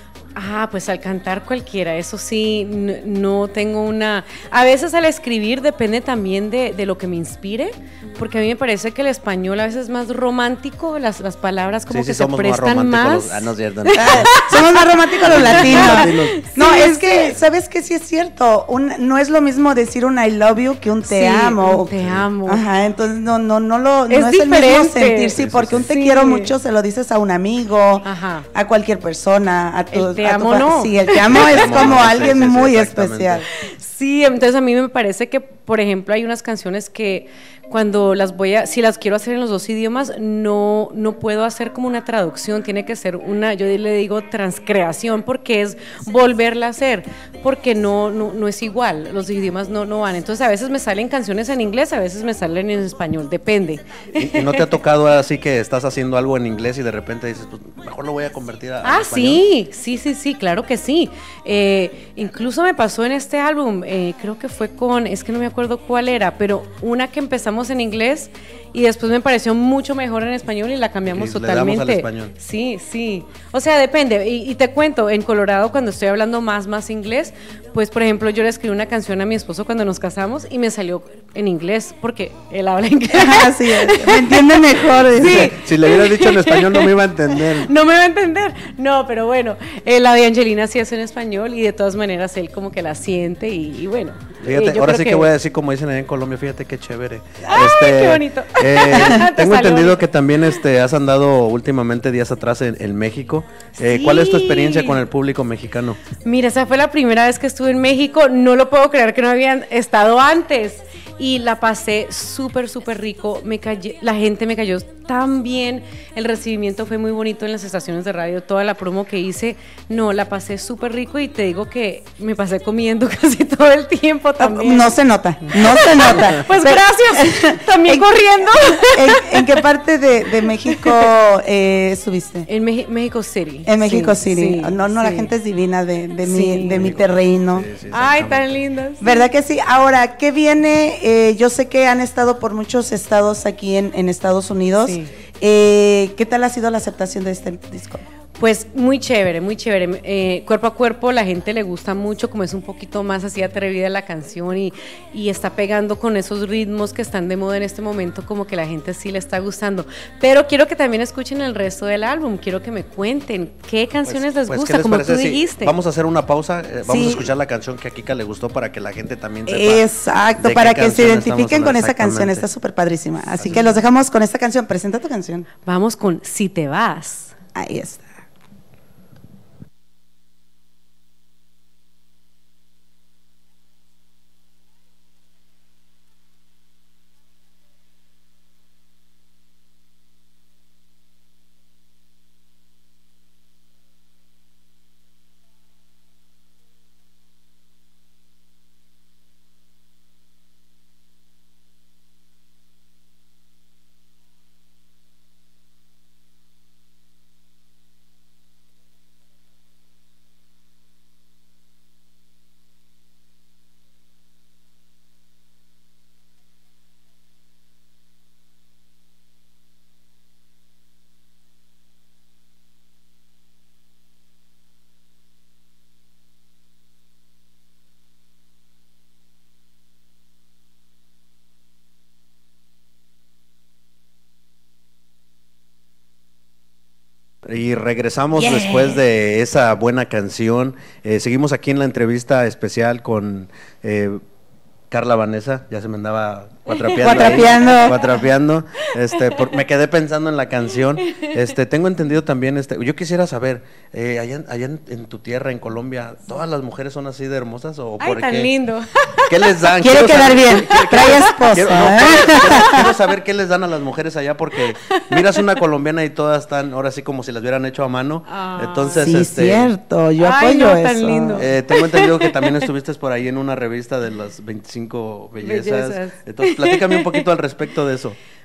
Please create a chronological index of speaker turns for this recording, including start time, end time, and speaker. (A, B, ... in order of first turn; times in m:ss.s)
0:00.3-0:17.4 A
0:11.9-0:14.5 B
0:13.9-0:33.4 C
0:15.2-0:16.4 B
0:21.1-0:22.6 A
0:22.0-0:22.2 B
0:24.1-0:26.5 A
0:25.4-0:25.9 B
0:28.0-0:28.5 A
0:29.9-0:31.9 A
0:31.2-0:33.4 B
0:33.5-0:54.7 A
0:54.2-0:59.4 B
0:58.8-1:35.3 A
1:11.0-1:12.3 B
1:23.1-1:25.5 C
1:25.3-1:27.7 B
1:34.4-1:46.0 B
1:37.4-1:40.0 A
1:43.8-1:45.0 A
1:46.2-2:04.9 A
2:04.4-2:12.5 C
2:05.5-2:09.6 A
2:10.7-2:11.0 A
2:12.5-2:15.3 A
2:13.6-2:17.7 C
2:16.2-2:16.9 A
2:16.7-2:18.5 B
2:17.9-2:19.3 A
2:19.0-2:28.0 C
2:24.8-2:25.1 A
2:28.4-2:45.8 A
2:44.0-2:49.8 B
2:46.8-2:47.3 C
2:49.5-2:55.4 C
2:50.4-2:52.4 B
2:53.4-2:53.7 B
2:55.6-2:57.3 A
2:57.5-2:58.0 C
3:57.5-4:04.2 B
3:58.4-3:59.0 C
4:04.9-4:18.5 B
4:06.7-4:08.2 A
4:07.0-4:08.0 C
4:11.0-4:11.3 A
4:18.0-4:19.7 A
4:19.3-4:29.7 B
4:19.8-4:22.9 C
4:24.8-4:25.5 A
4:28.3-4:29.2 A
4:29.0-4:31.5 C
4:30.2-4:32.7 A
4:31.4-4:38.2 B
4:35.4-4:37.3 A